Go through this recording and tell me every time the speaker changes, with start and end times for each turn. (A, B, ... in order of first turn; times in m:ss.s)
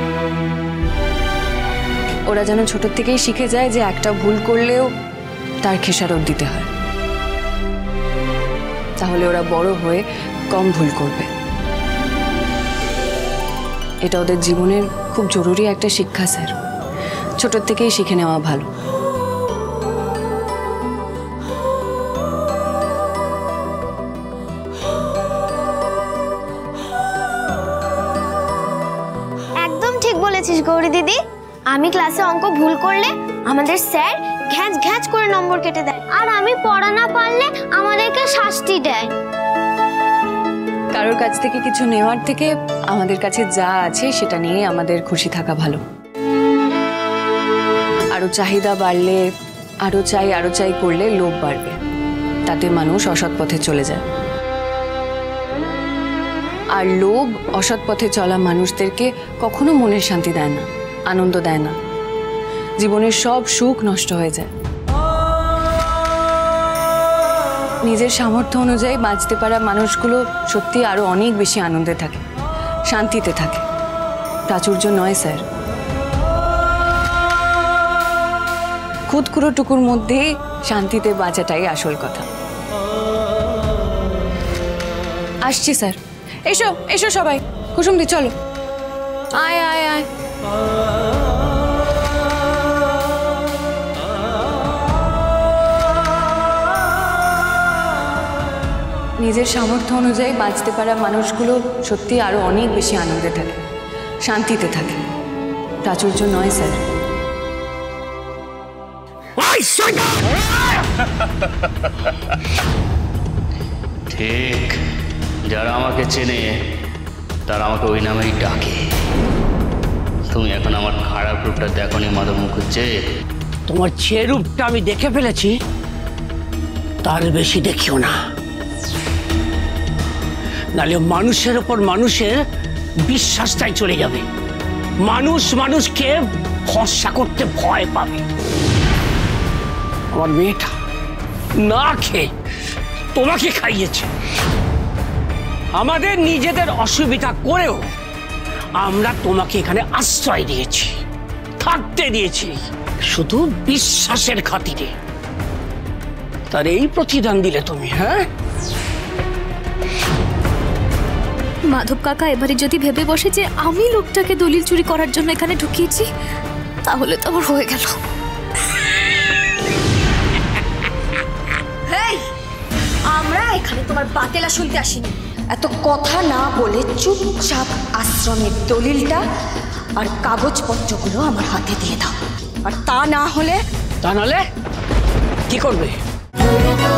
0:02.3-0:04.9 A
0:05.6-0:06.7 A
0:09.0-0:11.3 A
0:14.0-0:16.5 A
0:17.4-0:18.7 A
0:29.6-0:31.2 B
0:31.7-0:39.1 B
0:40.9-0:45.8 A
0:48.1-0:49.2 A
0:49.8-0:51.8 A
0:52.5-0:54.0 A
0:56.7-1:01.8 A
1:02.8-1:04.5 A
1:07.8-1:12.2 A
1:12.9-1:13.6 A
1:14.5-1:15.4 A
1:19.1-1:22.2 A
1:25.4-1:28.3 A
1:29.4-1:30.1 A
1:39.2-1:43.6 A
1:44.2-1:45.0 A
1:45.8-1:46.8 A
1:49.4-1:50.6 C
1:54.1-1:54.8 D
1:55.5-1:56.4 D
1:57.5-1:58.8 D
2:00.3-2:02.9 D
2:03.7-2:05.5 C
2:07.0-2:08.2 C
2:10.8-2:12.4 C
2:13.1-2:14.3 C
2:15.0-2:18.2 C
2:20.1-2:20.7 C
2:21.6-2:22.3 C
2:23.2-2:24.1 C
2:25.8-2:27.8 C
2:28.8-2:31.0 C
2:31.6-2:34.9 C
2:36.5-2:38.3 C
2:41.7-2:46.1 E
2:46.9-2:48.0 E
2:52.0-2:52.2 F
2:53.2-2:55.1 F
2:55.6-2:59.2 F
3:00.0-3:02.2 F
3:02.7-3:03.6 F
3:04.0-3:04.4 C
3:05.5-3:06.0 C